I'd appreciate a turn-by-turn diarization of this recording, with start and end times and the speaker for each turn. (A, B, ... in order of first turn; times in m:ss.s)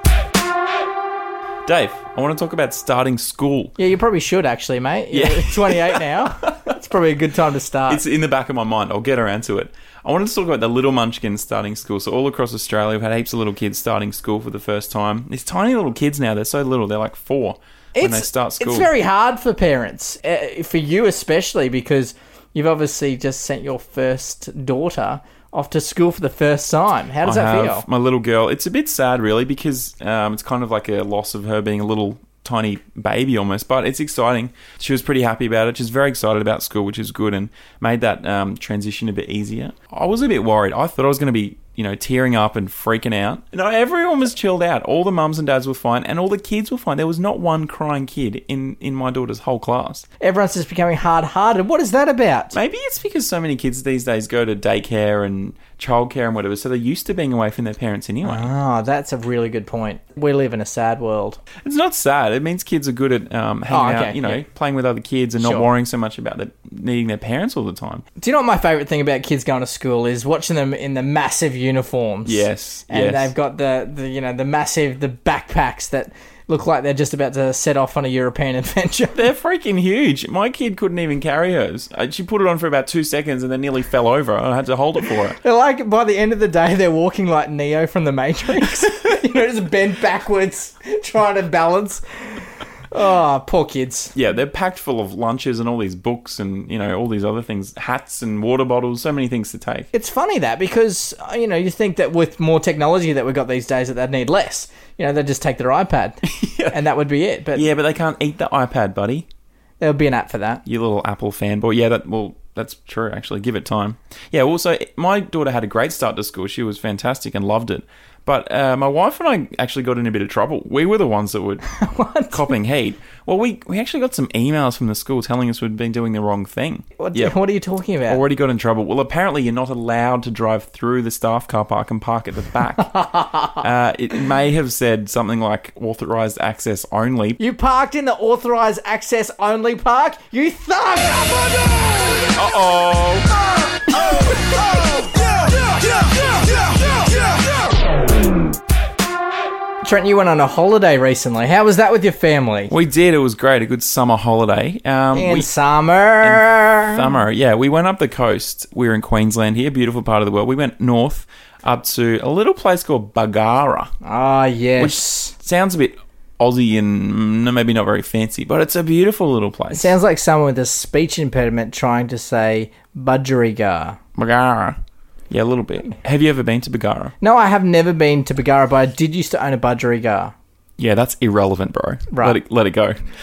0:01.6-0:03.7 A
0:03.8-0:08.0 B
0:05.1-0:06.7 A
0:07.9-0:18.9 A
0:18.0-0:27.8 B
0:27.2-0:50.0 A
0:50.2-0:52.6 B
0:52.5-0:58.5 A
0:58.2-1:01.4 B
1:01.6-1:08.0 A
1:03.7-1:04.4 B
1:05.4-1:05.7 B
1:08.2-1:19.2 B
1:12.2-1:13.3 A
1:19.1-1:25.4 A
1:25.4-1:32.0 B
1:32.9-1:34.1 B
1:34.1-1:39.9 A
1:39.9-1:47.7 B
1:46.2-1:46.8 A
1:47.5-1:49.2 A
1:49.8-1:50.6 B
1:50.6-2:01.6 A
2:01.7-2:02.5 B
2:02.3-2:07.4 A
2:07.0-2:08.2 B
2:08.1-2:12.9 A
2:12.8-2:13.6 B
2:13.6-2:17.4 A
2:17.4-2:22.2 B
2:22.3-2:23.3 A
2:29.8-2:32.7 B
2:32.7-2:35.5 A
2:35.1-2:37.1 B
2:36.2-2:43.9 A
2:44.0-2:45.3 B
2:44.8-2:50.0 A
2:49.7-2:54.0 B
2:54.2-2:54.8 A
2:55.3-2:57.1 A
2:57.2-3:00.3 B
3:00.8-3:03.0 A
3:02.1-3:02.4 B